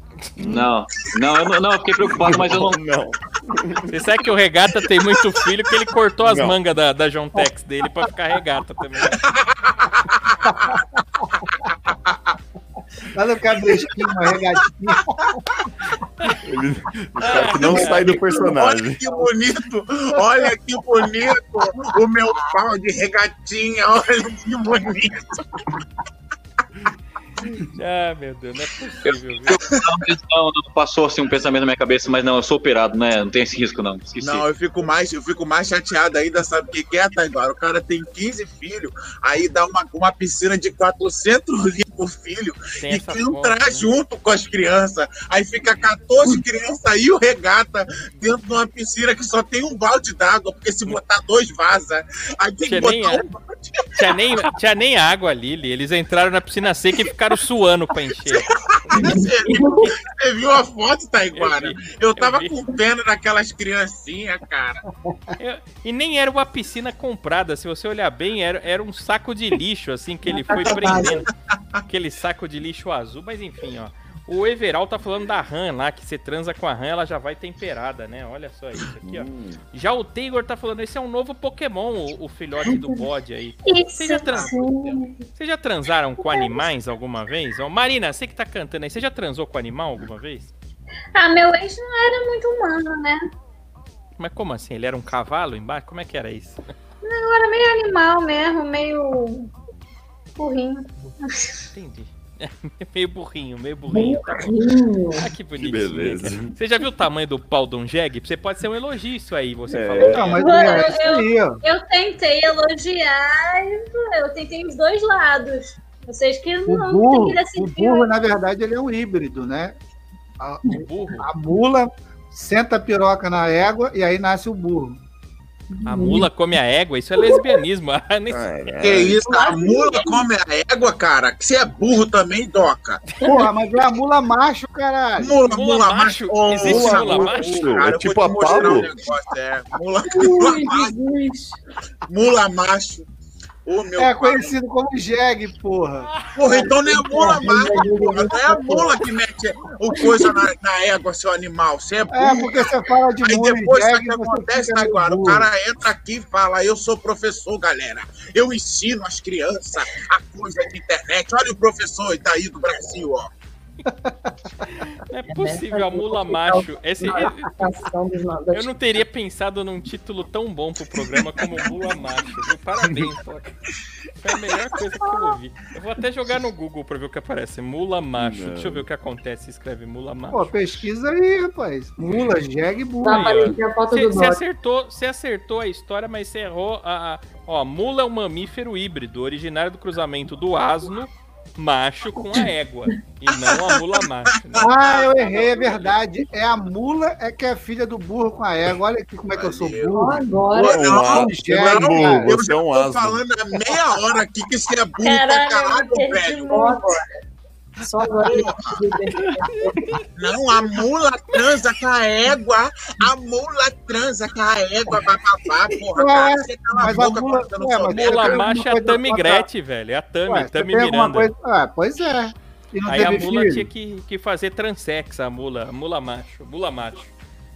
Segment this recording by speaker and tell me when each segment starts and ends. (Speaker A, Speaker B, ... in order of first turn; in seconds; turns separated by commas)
Speaker A: 0.4-0.7, Speaker B: 0.4-2.8, Speaker A: 2.0-4.0, Speaker C: 3.9-9.2, Speaker A: 6.2-6.6, Speaker D: 9.2-10.8, Speaker D: 11.9-12.3, Speaker E: 13.1-15.4, Speaker A: 16.4-19.0, Speaker C: 17.2-18.2, Speaker D: 17.3-25.4, Speaker C: 27.5-29.6, Speaker B: 29.0-34.4, Speaker D: 34.2-54.1, Speaker C: 42.8-43.9, Speaker C: 52.6-53.2, Speaker C: 54.0-59.1, Speaker D: 58.5-64.8, Speaker F: 58.9-59.9, Speaker C: 61.3-62.6, Speaker C: 65.4-71.3, Speaker F: 70.2-71.2, Speaker D: 70.9-71.3, Speaker C: 71.8-84.6, Speaker A: 79.0-79.6, Speaker G: 83.6-85.0, Speaker F: 84.5-85.0, Speaker C: 85.3-90.5, Speaker G: 91.1-93.3, Speaker C: 94.2-96.6, Speaker G: 97.0-99.5, Speaker G: 100.4-101.5, Speaker C: 101.7-104.6, Speaker F: 103.9-105.3, Speaker C: 105.1-110.7, Speaker A: 105.6-106.5, Speaker A: 109.7-110.3, Speaker E: 110.0-111.6, Speaker G: 110.4-118.1, Speaker E: 116.7-119.8, Speaker E: 120.4-125.0, Speaker C: 120.7-121.3, Speaker F: 125.7-126.3, Speaker C: 125.8-128.7, Speaker F: 127.2-127.4, Speaker A: 128.3-129.2, Speaker D: 128.8-133.0, Speaker E: 129.3-129.8, Speaker E: 133.2-135.4, Speaker D: 135.2-140.9, Speaker C: 135.4-137.7, Speaker A: 136.6-138.9, Speaker F: 140.0-141.6, Speaker D: 142.1-143.1, Speaker D: 143.6-144.5, Speaker E: 143.9-146.1, Speaker D: 146.3-152.7, Speaker F: 146.5-149.0, Speaker F: 149.9-150.4, Speaker E: 152.1-155.5, Speaker D: 153.2-163.3, Speaker C: 164.6-167.7, Speaker F: 165.3-168.7, Speaker C: 168.5-173.6, Speaker C: 174.2-180.5, Speaker A: 178.2-178.8, Speaker E: 180.3-183.4, Speaker F: 183.0-184.4, Speaker C: 183.0-195.0, Speaker D: 193.3-195.7, Speaker E: 194.6-200.3, Speaker D: 199.3-200.0, Speaker F: 199.9-201.0, Speaker D: 200.5-206.6, Speaker A: 200.6-203.2, Speaker E: 201.0-202.3, Speaker G: 205.0-206.9, Speaker F: 206.5-207.1, Speaker F: 207.8-210.0, Speaker D: 208.2-208.8, Speaker D: 210.1-218.5, Speaker E: 215.7-219.5, Speaker C: 217.9-221.3, Speaker E: 220.2-223.7, Speaker C: 222.8-227.1